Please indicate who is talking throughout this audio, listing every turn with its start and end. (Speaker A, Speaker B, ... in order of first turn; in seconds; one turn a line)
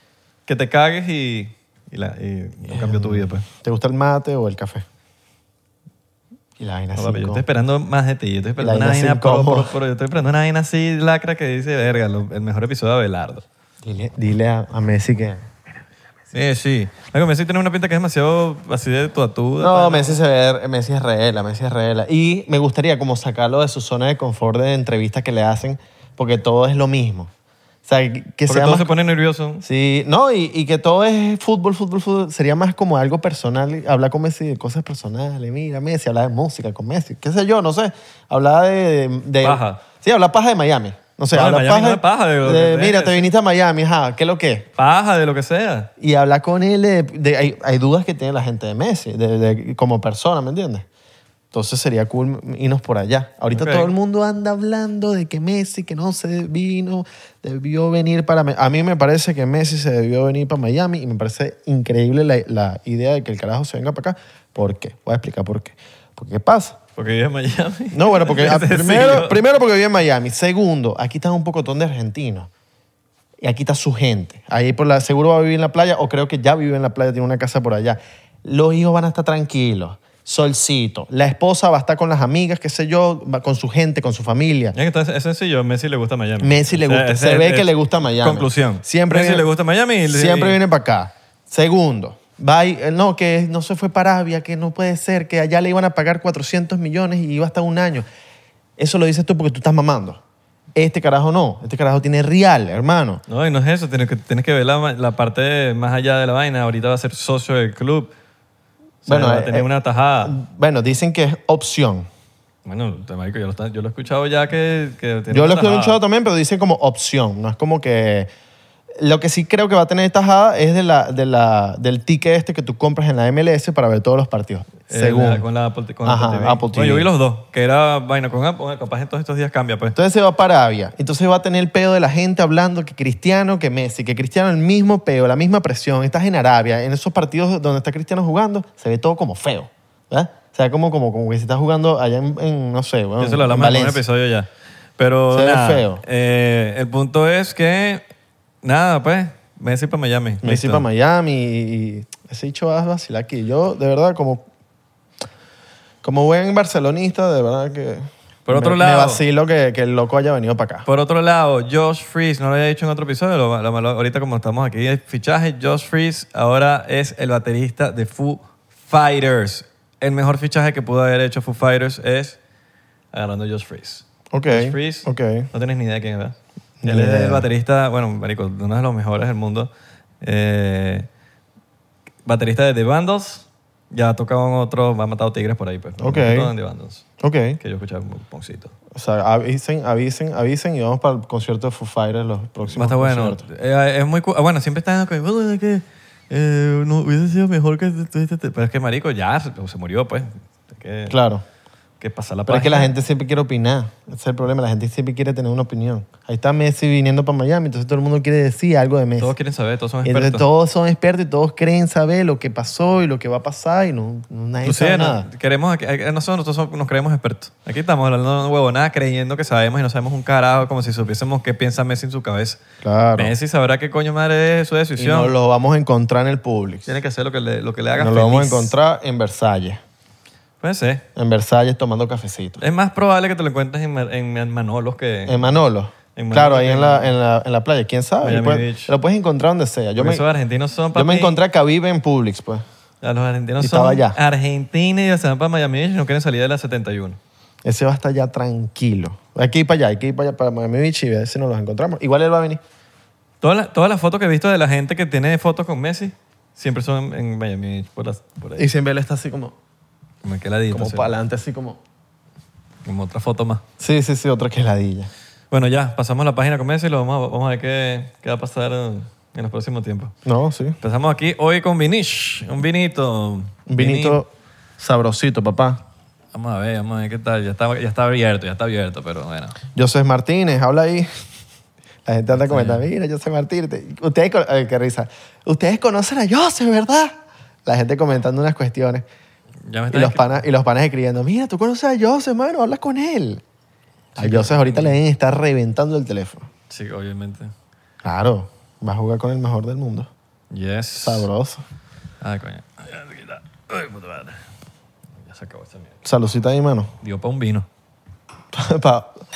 Speaker A: 0.5-3.5
Speaker B: 2.7-4.8
Speaker B: 6.6-7.4
Speaker A: 7.0-13.4
Speaker B: 8.6-9.7
Speaker B: 13.8-15.4
Speaker A: 16.3-20.2
Speaker B: 19.6-27.3
Speaker B: 27.9-28.9
Speaker A: 28.5-29.6
Speaker B: 29.6-44.7
Speaker A: 39.4-39.8
Speaker A: 41.3-43.3
Speaker A: 44.8-45.9
Speaker B: 46.0-50.9
Speaker B: 51.5-66.8
Speaker A: 53.5-53.9
Speaker A: 67.0-69.4
Speaker B: 67.9-72.5
Speaker B: 73.4-84.8
Speaker A: 84.7-90.6
Speaker B: 86.4-89.5
Speaker B: 90.1-98.1
Speaker B: 98.8-100.2
Speaker B: 100.8-103.2
Speaker A: 103.3-108.1
Speaker A: 109.0-110.4
Speaker B: 109.1-109.7
Speaker B: 110.2-112.1
Speaker A: 112.7-116.0
Speaker B: 115.3-118.3
Speaker B: 119.0-125.4
Speaker A: 124.9-130.0
Speaker B: 126.0-127.1
Speaker B: 130.0-144.0
Speaker A: 143.2-148.1
Speaker B: 145.3-146.0
Speaker A: 148.6-150.9
Speaker B: 150.4-154.5
Speaker B: 156.0-160.9
Speaker A: 158.5-159.2
Speaker A: 160.8-172.4
Speaker A: 173.1-181.1
Speaker B: 174.3-175.5
Speaker B: 176.8-177.5
Speaker A: 182.2-187.1
Speaker B: 186.0-186.5
Speaker B: 187.2-187.6
Speaker A: 187.6-188.7
Speaker B: 188.9-193.4
Speaker A: 192.7-201.2
Speaker B: 201.1-201.4
Speaker A: 202.0-202.9
Speaker B: 202.5-209.3
Speaker A: 209.2-210.5
Speaker B: 210.0-215.3
Speaker A: 214.6-222.6
Speaker B: 222.8-223.3
Speaker A: 223.2-225.3
Speaker B: 225.0-226.9
Speaker A: 226.9-228.7
Speaker B: 228.0-229.8
Speaker A: 230.6-231.1
Speaker B: 231.2-232.6
Speaker A: 232.6-235.6
Speaker B: 235.3-240.2
Speaker A: 236.2-237.2
Speaker A: 238.2-238.9
Speaker A: 240.0-241.3
Speaker B: 240.9-242.6
Speaker A: 243.0-247.2
Speaker B: 243.6-244.2
Speaker B: 247.6-252.6
Speaker A: 253.4-258.7
Speaker B: 258.6-259.6
Speaker A: 260.2-261.1
Speaker B: 260.7-261.8
Speaker A: 262.9-263.6
Speaker B: 263.8-265.1
Speaker A: 265.5-270.2
Speaker B: 270.3-270.8
Speaker A: 270.8-274.2
Speaker B: 273.7-275.8
Speaker A: 276.3-279.6
Speaker B: 279.8-281.1
Speaker B: 282.1-287.1
Speaker A: 282.3-282.9
Speaker B: 287.7-289.0
Speaker A: 289.7-290.4
Speaker B: 289.9-293.4
Speaker A: 294.1-295.0
Speaker B: 294.2-296.5
Speaker A: 296.7-297.5
Speaker B: 298.0-300.1
Speaker A: 300.5-301.3
Speaker B: 301.0-301.6
Speaker A: 302.2-304.4
Speaker A: 305.2-306.0
Speaker B: 306.0-306.9
Speaker A: 307.0-307.7
Speaker B: 308.5-309.2